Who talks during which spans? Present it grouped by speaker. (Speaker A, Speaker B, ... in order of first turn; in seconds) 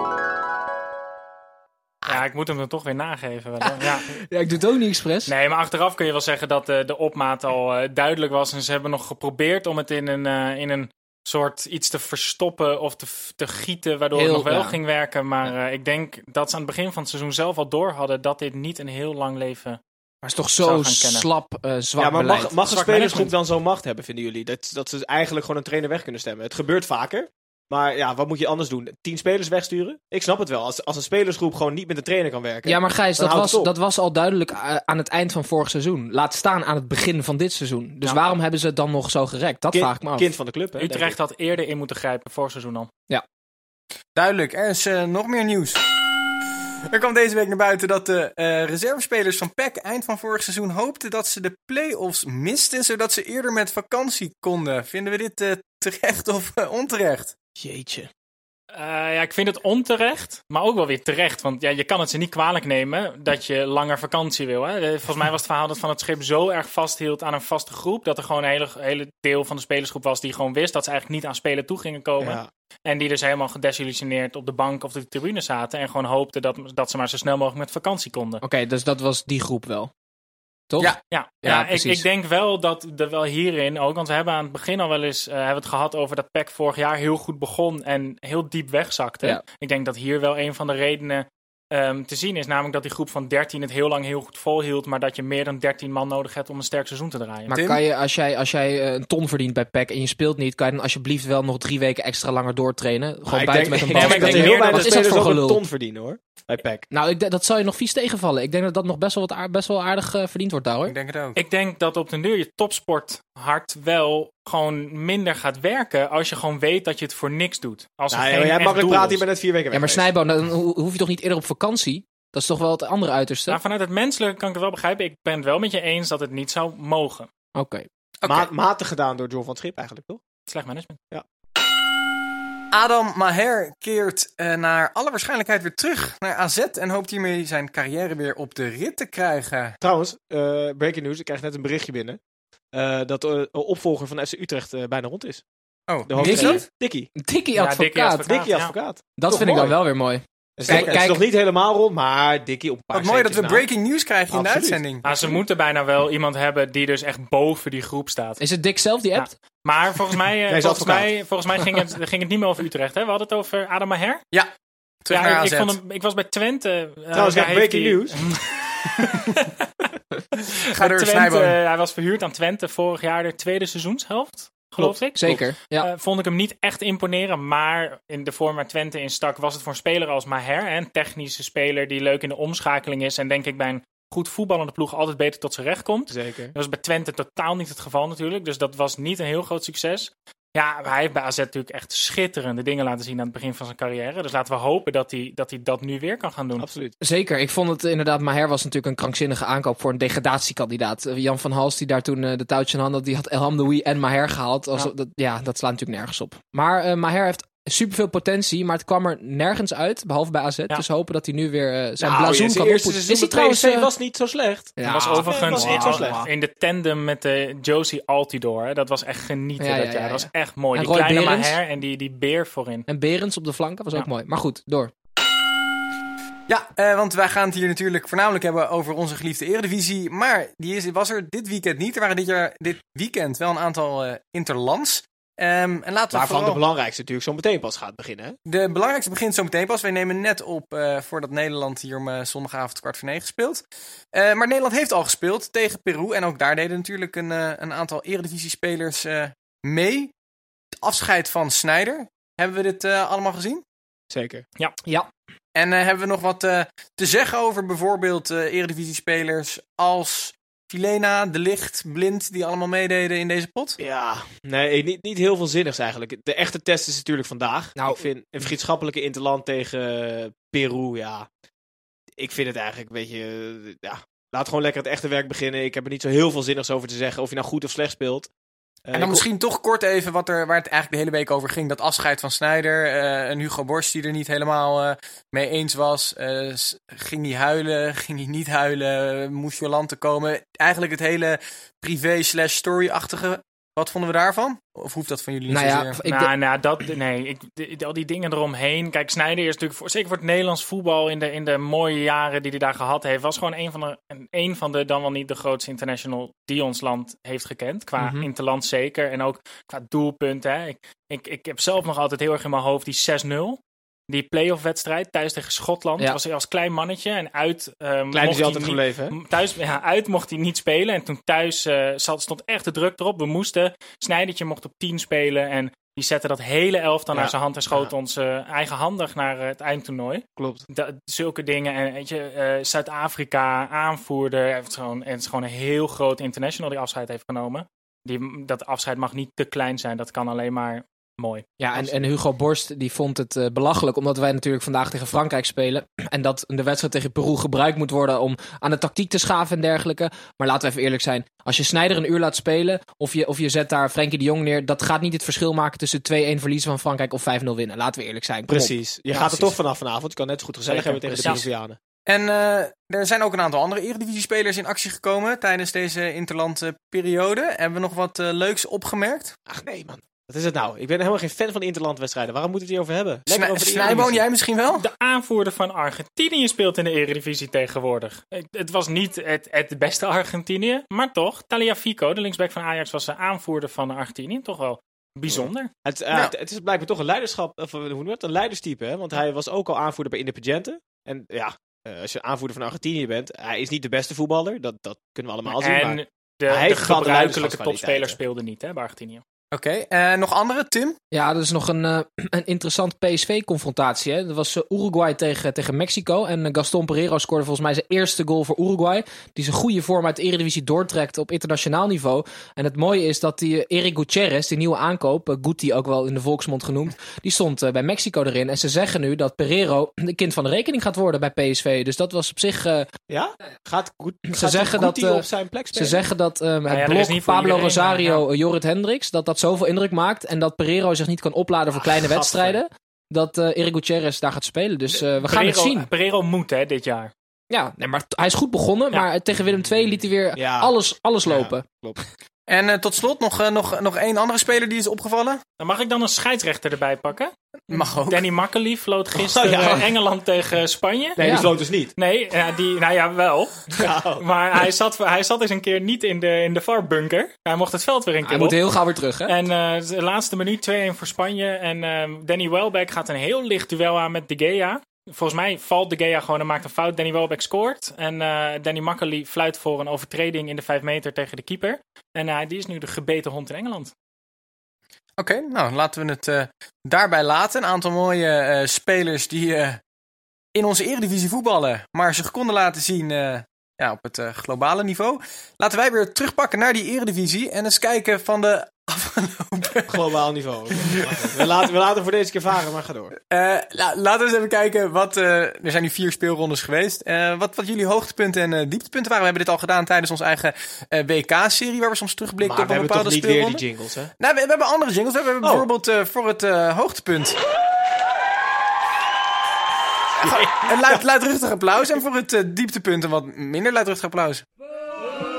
Speaker A: 2.0-4.1, 5.2-19.8, 20.6-21.3, 22.6-23.3, 40.8-42.9, 58.7-78.4, 81.1-97.5, 103.9-105.2, 111.3-119.2, 123.5-127.3, 130.5-131.0, 147.5-148.8, 155.0-158.4, 159.1-164.2, 165.1-169.7, 170.5-196.7, 214.8-222.8, 296.0-341.5, 361.1-361.5, 373.8-374.2, 374.7-385.7, 395.4-399.2, 426.7-428.2, 435.2-437.1, 445.6-451.4, 452.0-458.6, 459.2-473.9
Speaker B: 4.3-5.3, 14.1-14.8, 20.2-22.5, 32.6-40.3, 78.4-79.9, 80.7-82.0, 97.5-105.6, 106.9-110.9, 119.7-123.6, 127.5-127.9, 146.2-146.6, 147.2-148.2, 149.2-151.2, 158.4-159.3, 174.8-175.9, 197.0-213.9, 214.8-216.3, 219.6-221.6, 222.9-224.9, 267.8-268.0, 295.5-296.3, 308.0-308.3, 341.6-359.5, 360.7-361.4, 401.1-422.9, 424.3-435.9, 437.5-441.6, 451.2-451.5, 458.2-459.3
Speaker C: 22.0-33.7, 39.7-41.1, 57.6-58.1, 72.2-72.5, 103.3-106.8, 118.1-120.1, 128.2-130.2, 139.8-142.2, 142.7-145.4, 146.1-147.1, 148.2-149.8, 150.6-153.6, 154.3-155.3, 160.5-161.1, 167.1-168.3, 186.1-186.5, 196.6-196.9, 212.0-216.2, 236.1-238.3, 254.1-254.4, 263.8-271.3, 272.2-278.3, 278.9-279.2, 318.1-319.1, 327.1-327.9, 330.4-330.6, 358.5-361.8, 369.5-374.2, 385.3-398.2, 423.1-426.1, 431.7-432.6, 440.4-440.7, 441.2-442.0, 449.1-449.9, 451.2-451.9, 453.8-454.2, 489.9-493.1, 502.4-504.1, 510.2-511.0
Speaker D: 44.1-45.8, 46.9-57.3, 97.5-97.8, 110.8-111.4, 128.2-128.5, 132.7-139.8, 145.9-146.6, 150.7-151.0, 152.9-155.0, 165.0-165.8, 170.7-171.6, 226.5-236.6, 238.4-243.6, 244.1-250.1, 250.8-253.6, 255.5-263.8, 278.9-296.0, 362.1-369.3, 373.3-374.9, 399.5-401.0, 442.5-445.4, 447.7-448.3, 475.2-479.8, 480.5-490.0, 490.8-491.5, 493.3-503.6, 504.2-507.4, 510.2-514.4